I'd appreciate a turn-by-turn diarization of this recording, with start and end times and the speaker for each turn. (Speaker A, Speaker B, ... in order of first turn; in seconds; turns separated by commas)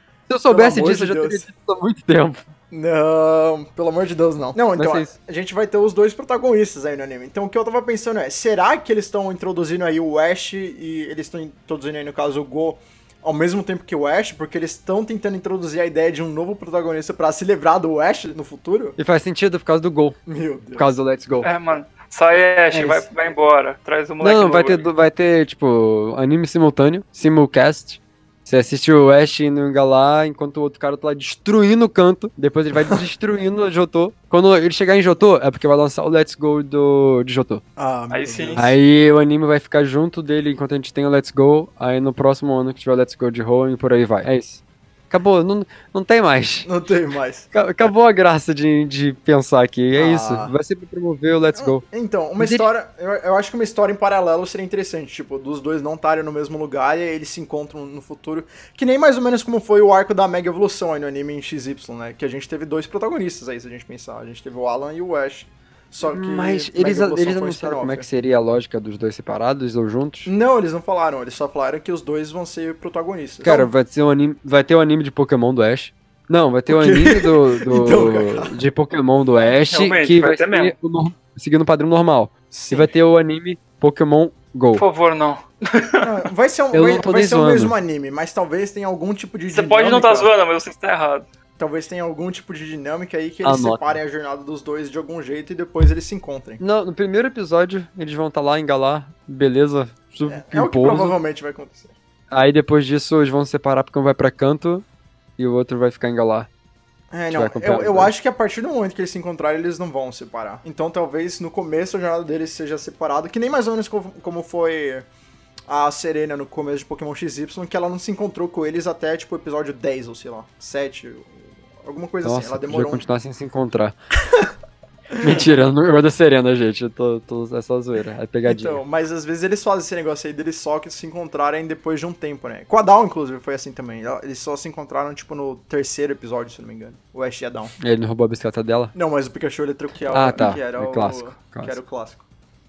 Speaker A: 0.3-2.4, Speaker B: 0.5-1.4, Speaker B: 2.7-19.0, Speaker A: 4.7-5.1, Speaker A: 19.0-20.2, Speaker B: 20.3-21.0, Speaker A: 20.8-21.5, Speaker C: 21.4-24.8, Speaker A: 22.7-23.0, Speaker A: 24.2-37.6, Speaker B: 37.8-38.7, Speaker C: 38.1-38.6, Speaker A: 38.6-46.7, Speaker B: 46.6-47.5, Speaker A: 47.5-51.8, Speaker B: 49.9-50.5, Speaker B: 51.5-68.1, Speaker A: 52.4-52.7, Speaker A: 66.0-70.3, Speaker B: 70.2-73.7, Speaker A: 73.4-84.8, Speaker B: 76.7-78.5, Speaker C: 79.7-80.7, Speaker B: 82.5-82.9, Speaker C: 84.8-86.0, Speaker B: 86.0-90.3, Speaker A: 86.7-87.7, Speaker C: 89.5-91.3, Speaker B: 91.6-96.6, Speaker A: 93.4-94.0, Speaker A: 96.6-101.2, Speaker B: 100.2-101.9, Speaker A: 102.3-104.8, Speaker A: 105.4-106.5, Speaker B: 107.1-115.0, Speaker A: 107.3-108.1, Speaker B: 115.7-123.0, Speaker A: 122.2-124.0, Speaker B: 125.1-125.5, Speaker A: 125.2-128.8, Speaker B: 128.4-137.7, Speaker A: 137.8-138.9, Speaker B: 138.9-142.2, Speaker A: 140.1-141.8